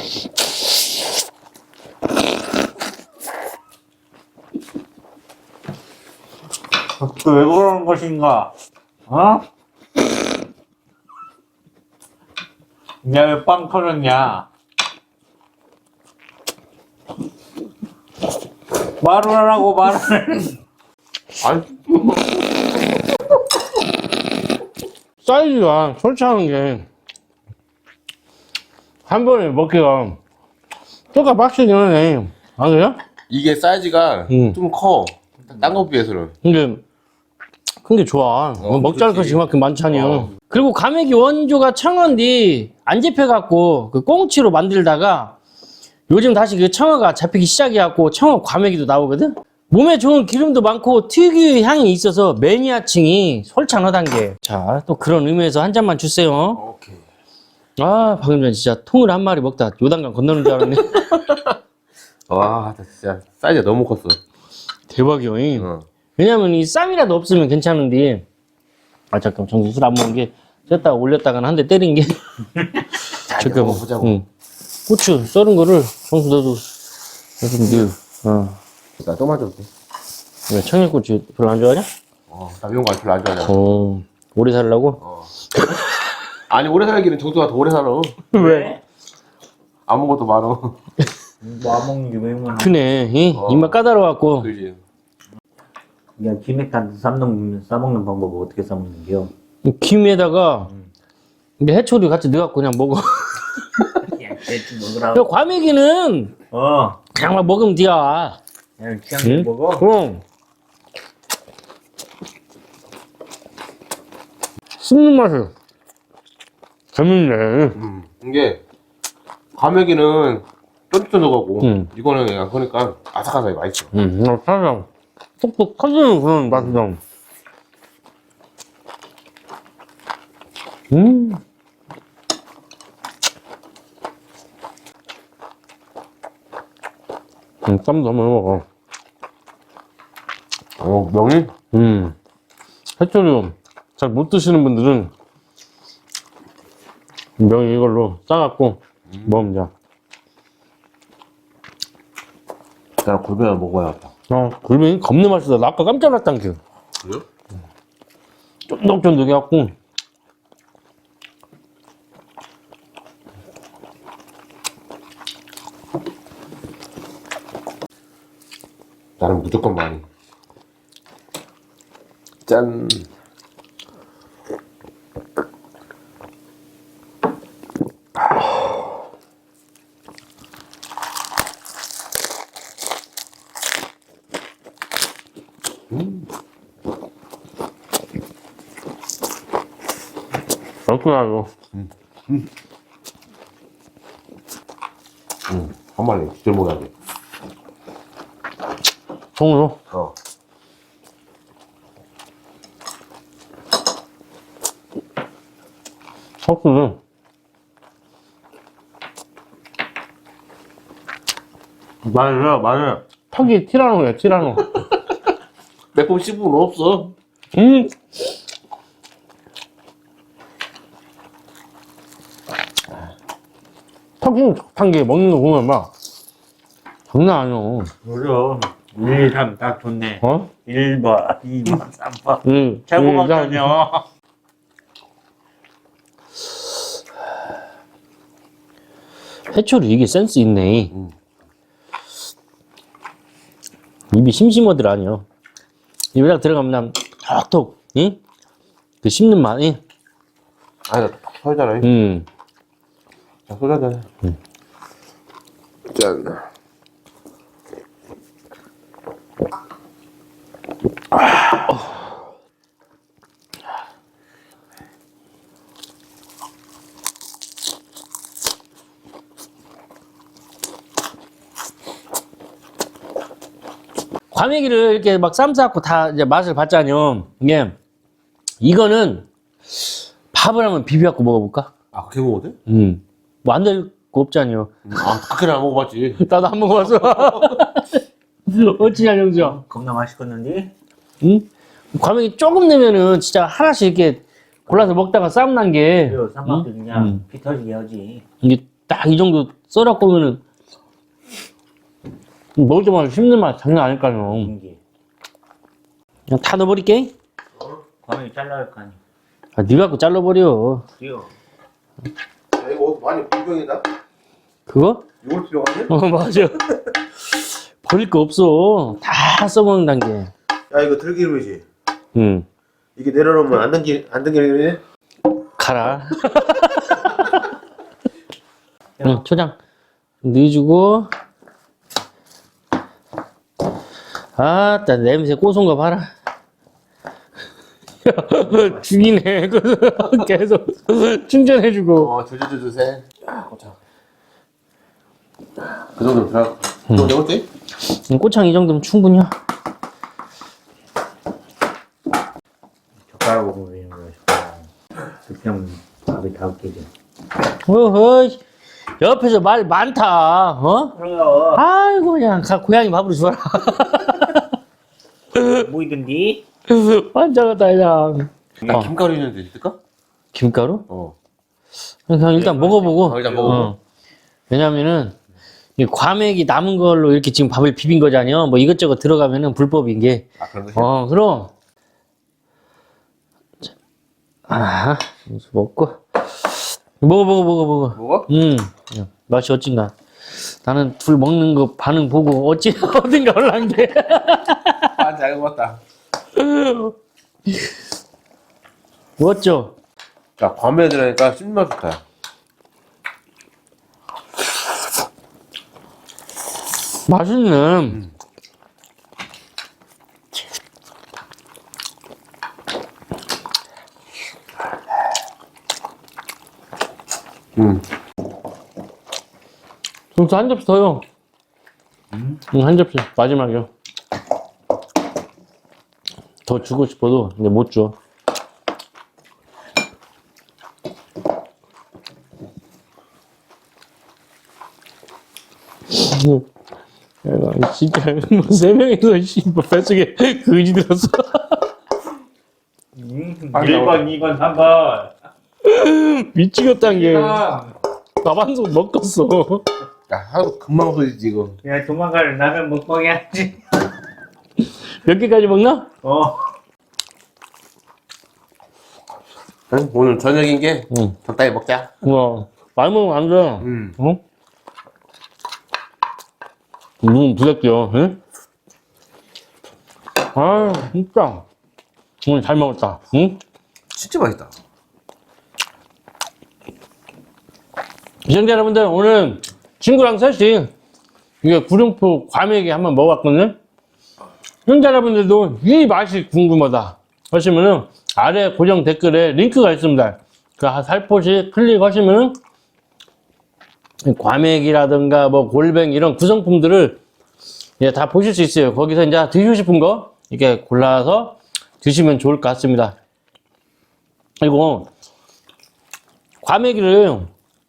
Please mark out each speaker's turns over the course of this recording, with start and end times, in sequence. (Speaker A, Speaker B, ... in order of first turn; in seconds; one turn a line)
Speaker A: 7.0-8.5
Speaker A: 9.1-9.4
Speaker A: 13.0-14.5
Speaker A: 19.0-20.6
Speaker B: 21.4-22.9
Speaker C: 25.2-26.9
Speaker C: 29.1-30.2
Speaker C: 31.1-33.0
Speaker B: 33.3-36.3
Speaker C: 34.3-34.6
Speaker C: 36.4-36.8
Speaker C: 37.9-45.4
Speaker B: 38.6-40.3
Speaker C: 46.1-56.6
Speaker B: 56.5-57.0
Speaker C: 57.8-61.2
Speaker B: 60.5-61.6
Speaker B: 62.3-64.2
Speaker C: 64.9-68.2
Speaker B: 65.6-65.8
Speaker C: 69.1-72.2
Speaker C: 73.3-74.3
Speaker B: 73.3-74.2
Speaker C: 74.9-76.7
Speaker C: 77.4-78.6
Speaker B: 79.0-79.7
Speaker C: 80.5-81.9
Speaker B: 82.3-83.6
Speaker C: 83.5-85.0
Speaker B: 85.0-85.3
Speaker B: 86.5-88.2
Speaker C: 88.3-88.7
Speaker A: 88.3-88.8
Speaker B: 89.9-90.8
Speaker A: 91.4-92.7
Speaker C: 92.6-94.5
Speaker B: 93.3-93.8
Speaker B: 94.4-94.8
Speaker A: 96.2-99.3
Speaker C: 99.6-100.7
Speaker C: 101.6-104.1
Speaker A: 104.0-105.3
Speaker C: 105.1-106.3
Speaker A: 106.5-107.0
Speaker C: 107.1-108.4
Speaker A: 108.8-109.8
Speaker C: 109.2-110.2
Speaker C: 114.8-115.5
Speaker C: 116.9-117.8
Speaker B: 117.8-118.6
Speaker B: 119.5-123.9
Speaker C: 121.6-121.9
Speaker C: 123.9-124.9
Speaker C: 125.4-127.0
Speaker B: 126.5-126.8
Speaker C: 130.9-131.4
Speaker C: 137.6-138.7
Speaker B: 140.8-141.5
Speaker C: 141.7-142.2
Speaker C: 143.0-145.1
Speaker C: 147.4-149.7
Speaker B: 149.1-149.4
Speaker B: 153.0-154.1
Speaker C: 154.3-156.6
Speaker C: 158.7-159.8
Speaker B: 169.2-170.1
Speaker B: 172.5-173.1
Speaker B: 185.9-186.3
Speaker C: 190.9-191.5
Speaker B: 191.7-192.5
Speaker B: 195.5-196.9
Speaker C: 199.4-199.8
Speaker C: 206.4-207.0
Speaker B: 212.1-213.0
Speaker C: 213.3-214.7
Speaker B: 214.6-215.1
Speaker B: 215.9-217.1
Speaker C: 217.5-217.9
Speaker C: 224.2-225.9
Speaker C: 227.1-227.9
Speaker A: 228.0-234.0
Speaker C: 230.2-230.5
Speaker C: 232.4-233.7
Speaker C: 239.5-240.9
Speaker C: 244.1-245.2
Speaker C: 246.2-248.2
Speaker C: 249.0-249.8
Speaker B: 250.9-251.9
Speaker C: 251.8-252.2
Speaker B: 253.5-254.1
Speaker B: 255.9-256.5
Speaker C: 274.3-277.8
Speaker C: 278.6-279.3
Speaker C: 280.3-281.7
Speaker B: 281.9-282.6
Speaker C: 282.7-284.8
Speaker B: 284.9-286.2
Speaker C: 286.2-289.6
Speaker B: 286.8-287.6
Speaker A: 289.4-290.7
Speaker C: 291.2-297.2
Speaker A: 296.1-298.2
Speaker C: 298.4-300.4
Speaker C: 302.6-304.5
Speaker A: 304.3-304.8
Speaker C: 306.3-307.1
Speaker A: 308.0-309.0
Speaker C: 309.6-310.9
Speaker A: 311.0-311.3
Speaker B: 312.6-313.8
Speaker C: 314.7-315.1
Speaker B: 315.2-315.9
Speaker C: 315.9-316.7
Speaker C: 317.8-320.3
Speaker B: 320.7-321.6
Speaker C: 322.1-322.5
Speaker B: 323.0-324.8
Speaker C: 325.6-327.1
Speaker C: 329.0-329.6
Speaker C: 330.2-331.1
Speaker C: 334.4-336.1
Speaker C: 338.0-342.1
Speaker B: 342.0-343.8
Speaker B: 346.0-347.5
Speaker C: 346.9-347.2
Speaker C: 347.8-349.3
Speaker A: 353.1-354.7
Speaker A: 355.3-356.9
Speaker C: 357.6-358.4
Speaker C: 359.0-360.9
Speaker A: 360.9-361.6
Speaker C: 361.6-364.5
Speaker C: 365.4-365.6
Speaker A: 365.4-366.4
Speaker C: 366.7-368.9
Speaker B: 368.6-369.8
Speaker C: 370.3-370.9
Speaker B: 370.9-371.1
Speaker C: 372.1-373.8
Speaker A: 372.4-373.6
Speaker B: 372.4-373.7
Speaker C: 374.5-375.2
Speaker C: 375.8-381.5
Speaker B: 380.4-380.9
Speaker C: 384.5-394.9
Speaker B: 387.9-388.3
Speaker B: 395.0-395.8
Speaker C: 396.4-396.9
Speaker C: 399.2-399.8
Speaker B: 400.4-402.0
Speaker C: 407.1-408.0
Speaker B: 417.6-417.8
Speaker C: 420.1-421.0
Speaker C: 422.5-423.7
Speaker C: 426.5-428.0
Speaker C: 435.9-436.5
Speaker C: 437.2-441.7
Speaker A: 442.9-445.1
Speaker B: 443.5-444.1
Speaker C: 445.6-447.4
Speaker A: 446.8-447.7
Speaker C: 448.2-449.7
Speaker B: 450.1-451.6
Speaker A: 451.6-453.6
Speaker C: 455.0-455.9
Speaker A: 456.0-456.4
Speaker B: 459.7-461.9
Speaker C: 462.0-464.2
Speaker B: 463.6-464.0
Speaker C: 467.0-468.2
Speaker C: 470.4-471.4
Speaker C: 472.2-473.4
Speaker B: 473.9-474.5
Speaker C: 478.3-480.7
Speaker C: 481.4-483.6
Speaker C: 484.7-492.4
Speaker C: 494.1-497.0
Speaker C: 497.8-502.9
Speaker C: 504.4-504.9
Speaker C: 506.4-507.3